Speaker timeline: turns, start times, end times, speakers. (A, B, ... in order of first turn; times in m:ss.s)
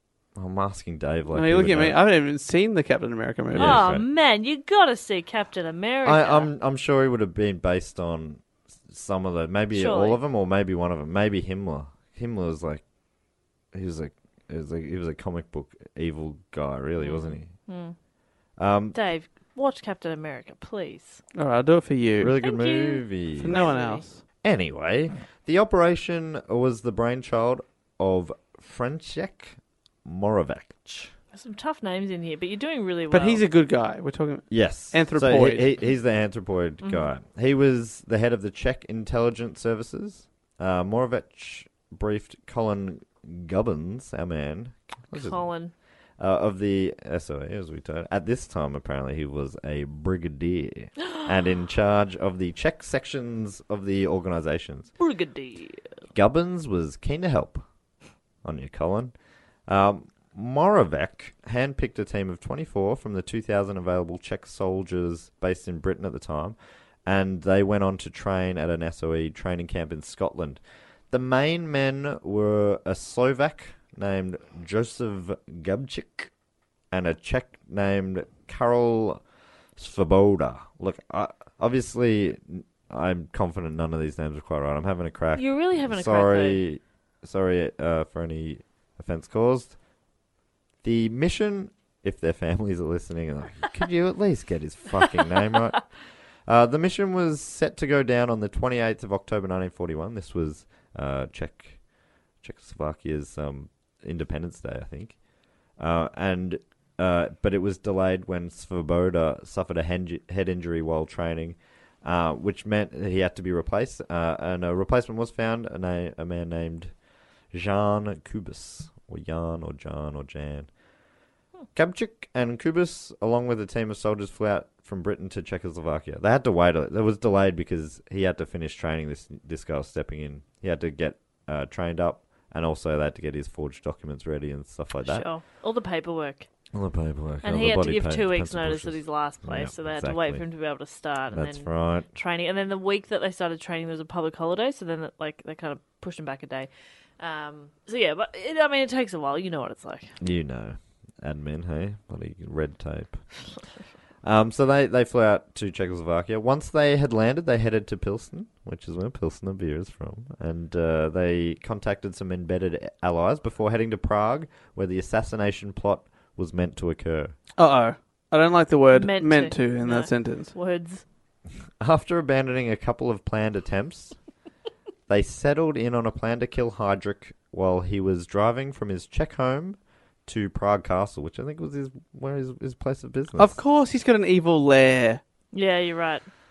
0:00.4-0:02.0 A
0:01.3-0:03.8 B
0:03.5-0:04.1 A
0:03.6-0:06.5 C
0:06.0-0:12.8 A
0:09.7-0:10.2 C
0:13.7-0:17.5 A
0:17.0-0:18.0 C
0:18.6-0:19.0 A
0:18.9-0:21.2 C
0:21.4-0:22.4 B
0:22.2-0:23.7 A
0:22.4-0:24.0 C
0:23.4-0:24.2 B
0:24.4-0:31.1 A
0:31.3-0:33.4 C
0:33.1-0:35.7 B
0:34.5-0:45.4 A
0:45.1-0:45.7 C
0:46.2-0:54.9 A
0:55.0-0:55.8 C
0:56.1-0:57.6 A
0:58.4-0:59.2 A
0:59.7-1:16.3 A
1:16.9-1:19.2 A
1:19.8-1:29.8 A
1:25.4-1:26.6 C
1:30.8-1:35.9 A
1:36.5-1:41.8 A
1:42.4-1:45.2 A
1:45.8-1:56.9 A
1:57.5-2:00.7 A
2:01.8-2:15.3 A
2:15.0-2:16.5 C
2:16.7-2:20.4 A
2:17.4-2:30.2 C
2:21.3-2:22.1 A
2:30.2-2:33.2 A
2:34.2-2:47.4 A
2:47.6-2:50.5 B
2:48.9-2:51.0 C
2:51.8-2:54.2 A
2:55.1-3:03.6 A
3:03.4-3:05.2 B
3:05.5-3:06.2 C